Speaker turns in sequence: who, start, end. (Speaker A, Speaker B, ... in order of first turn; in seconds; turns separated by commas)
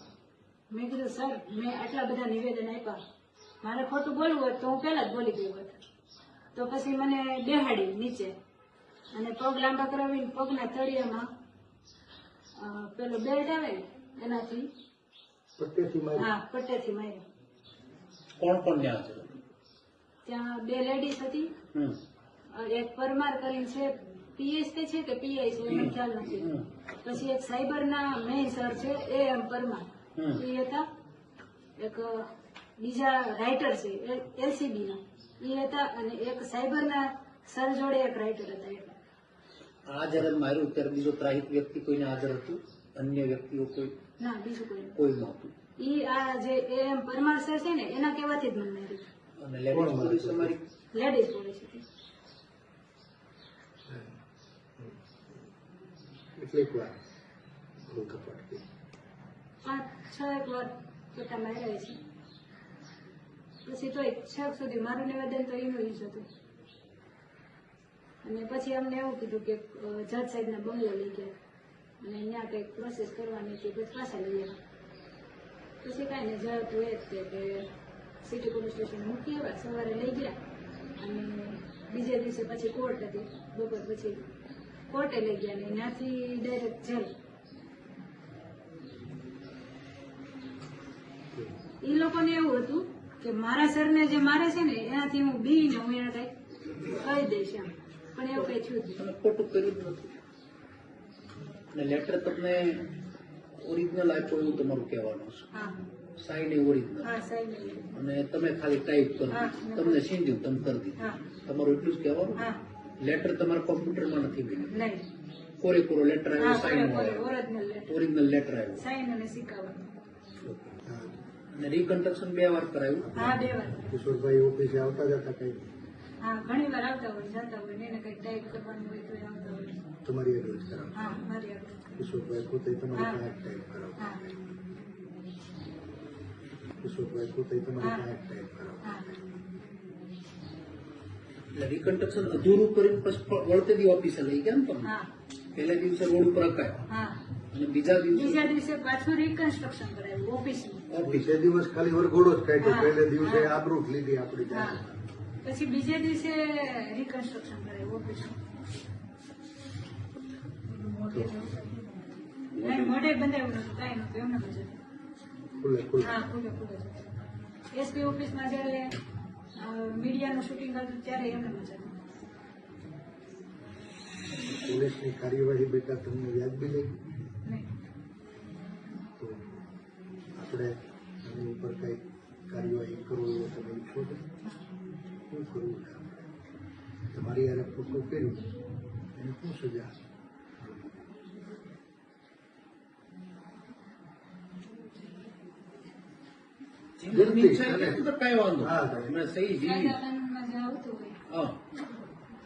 Speaker A: 0.7-3.0, Speaker A: 3.6-5.8, Speaker A: 6.5-8.3, Speaker A: 9.1-11.3, Speaker A: 12.6-14.7, Speaker B: 15.6-16.3, Speaker A: 16.2-17.2, Speaker C: 18.4-19.4, Speaker A: 20.2-21.5, Speaker A: 22.5-26.5, Speaker C: 25.7-26.7, Speaker A: 27.0-30.9, Speaker A: 31.8-39.0, Speaker C: 39.9-43.9, Speaker A: 44.2-45.0, Speaker C: 45.0-45.5, Speaker A: 45.8-49.0, Speaker C: 49.4-50.6, Speaker B: 49.7-50.5, Speaker A: 50.9-51.8, Speaker B: 53.9-54.2, Speaker B: 56.4-56.9, Speaker B: 57.9-58.6, Speaker A: 59.6-62.0, Speaker A: 63.6-66.2, Speaker A: 68.2-71.3, Speaker A: 72.0-74.6, Speaker A: 75.8-77.7, Speaker A: 78.2-80.4, Speaker A: 81.0-84.2, Speaker A: 84.9-87.1, Speaker A: 91.8-99.0, Speaker C: 98.4-100.1, Speaker C: 101.7-102.9, Speaker C: 103.6-105.5, Speaker C: 106.2-107.1, Speaker A: 107.0-107.8, Speaker C: 107.9-112.5, Speaker A: 109.3-110.0, Speaker C: 113.0-114.8, Speaker A: 114.7-115.0, Speaker C: 115.6-117.3, Speaker A: 116.4-117.9, Speaker C: 117.9-118.8, Speaker A: 118.8-119.8, Speaker C: 120.4-120.8, Speaker B: 120.8-121.2, Speaker C: 121.5-123.3, Speaker B: 123.0-125.7, Speaker A: 123.1-123.9, Speaker A: 126.2-129.8, Speaker B: 130.0-131.2, Speaker A: 130.9-132.0, Speaker B: 132.0-134.4, Speaker A: 132.9-133.2, Speaker A: 134.0-134.2, Speaker B: 136.8-139.0, Speaker C: 141.5-144.9, Speaker C: 145.5-146.8, Speaker A: 146.9-147.2, Speaker C: 147.5-148.5, Speaker A: 148.1-150.8, Speaker C: 150.9-151.3, Speaker B: 151.0-154.9, Speaker A: 152.6-153.5, Speaker A: 154.5-154.8, Speaker A: 155.4-158.4, Speaker A: 160.8-161.6, Speaker C: 162.6-162.9, Speaker A: 162.6-164.8, Speaker B: 165.6-166.2, Speaker A: 166.0-167.1, Speaker A: 167.7-169.0, Speaker A: 169.6-171.9, Speaker B: 174.4-177.0, Speaker B: 179.2-179.5, Speaker B: 180.4-184.2, Speaker B: 185.3-186.2, Speaker B: 187.1-188.4, Speaker B: 189.1-189.9, Speaker B: 190.6-191.0, Speaker C: 197.0-200.0, Speaker B: 197.1-198.0, Speaker B: 198.6-199.1, Speaker A: 199.5-201.2, Speaker C: 201.3-201.6